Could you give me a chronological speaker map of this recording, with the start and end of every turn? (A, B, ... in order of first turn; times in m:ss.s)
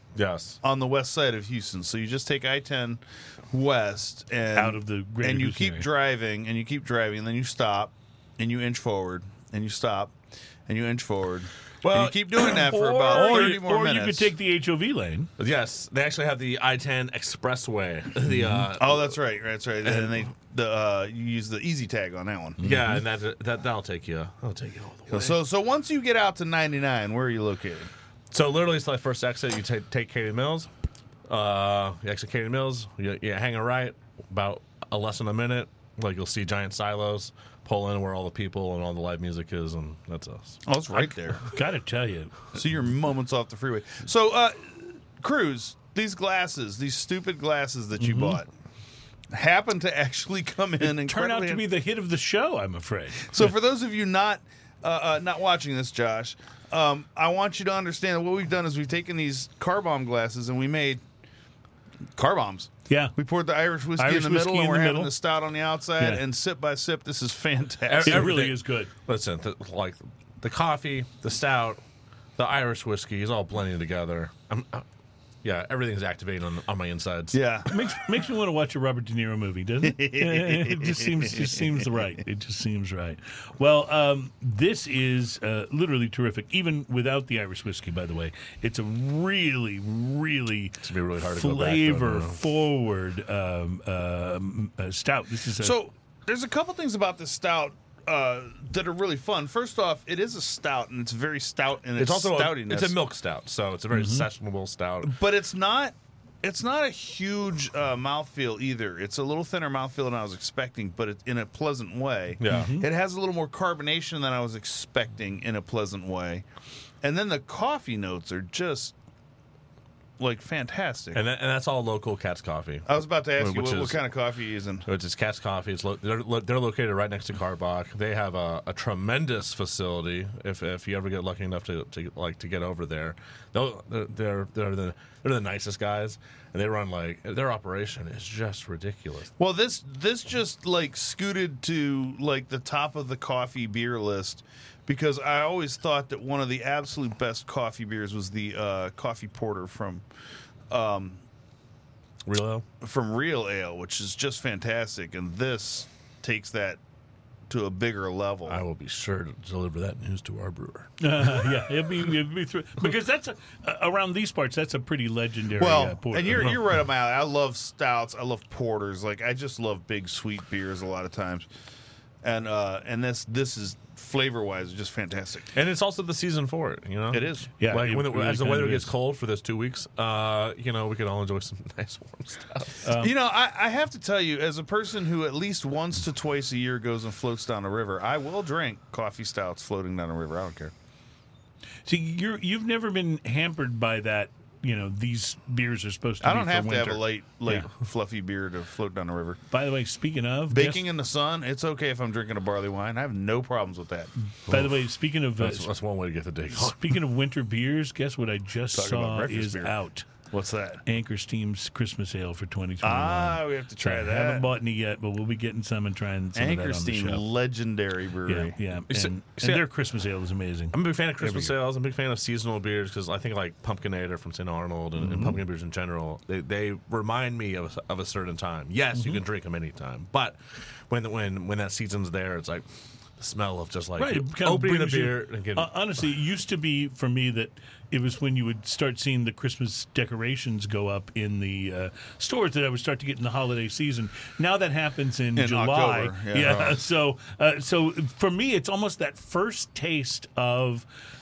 0:00.2-0:00.6 A
0:00.6-0:14.3 B
0:04.5-0:05.9 C
0:11.8-0:13.6 A
0:12.4-0:15.3 C
0:15.4-0:19.1 A
0:18.3-0:18.7 C
0:18.8-0:22.6 B
0:19.8-0:20.2 A
0:22.6-0:23.0 C
0:22.6-0:25.4 A
0:25.1-0:27.9 B
0:28.3-0:30.7 A
0:31.3-0:40.6 A
0:40.6-0:41.5 B
0:41.5-0:42.5 C
0:42.5-0:48.5 B
0:48.0-0:48.4 C
0:49.3-0:51.6 B
0:50.9-0:53.5 C
0:53.2-1:01.0 B
1:02.2-1:08.4 B
1:02.9-1:03.1 C
1:04.0-1:05.1 C
1:07.9-1:11.8 A
1:08.0-1:08.9 C
1:12.4-1:14.8 A
1:15.4-1:17.4 A
1:17.3-1:17.7 B
1:17.7-1:35.8 C
1:19.8-1:21.9 B
1:30.8-1:32.4 A
1:35.6-1:43.0 B
1:42.0-1:45.2 A
1:43.9-1:44.3 C
1:45.0-1:56.4 B
1:52.4-1:52.7 A
1:52.5-1:52.9 C
1:57.0-1:58.9 B
2:00.2-2:01.2 B
2:01.1-2:04.0 A
2:02.9-2:04.9 B
2:04.8-2:19.3 A
2:19.4-2:30.0 B
2:30.7-2:31.2 B
2:32.2-2:32.6 A
2:32.8-2:36.8 B
2:37.5-2:38.6 B
2:38.5-2:41.0 A
2:41.0-2:46.5 C
2:45.6-2:51.5 B
2:52.2-2:55.5 B
2:55.5-3:02.9 A
2:57.1-2:57.5 B
2:57.6-2:58.9 C
3:02.8-3:03.1 C
3:02.9-3:10.7 B
3:11.8-3:17.7 C
3:16.2-3:19.4 B
3:19.5-3:20.8 C
3:20.5-3:24.1 B
3:24.5-3:25.7 C
3:24.5-3:24.8 A
3:25.4-3:27.0 A
3:26.5-3:30.1 C
3:28.7-3:29.8 B
3:30.3-3:30.8 B
3:30.8-3:37.2 C
3:32.8-3:34.5 B
3:36.3-3:38.6 B
3:38.3-3:41.6 C
3:38.9-3:39.6 A
3:40.7-3:52.7 A
3:45.0-3:45.3 C
3:48.9-3:49.2 C
3:53.2-3:55.7 A
3:54.0-4:10.8 C
4:05.3-4:06.8 B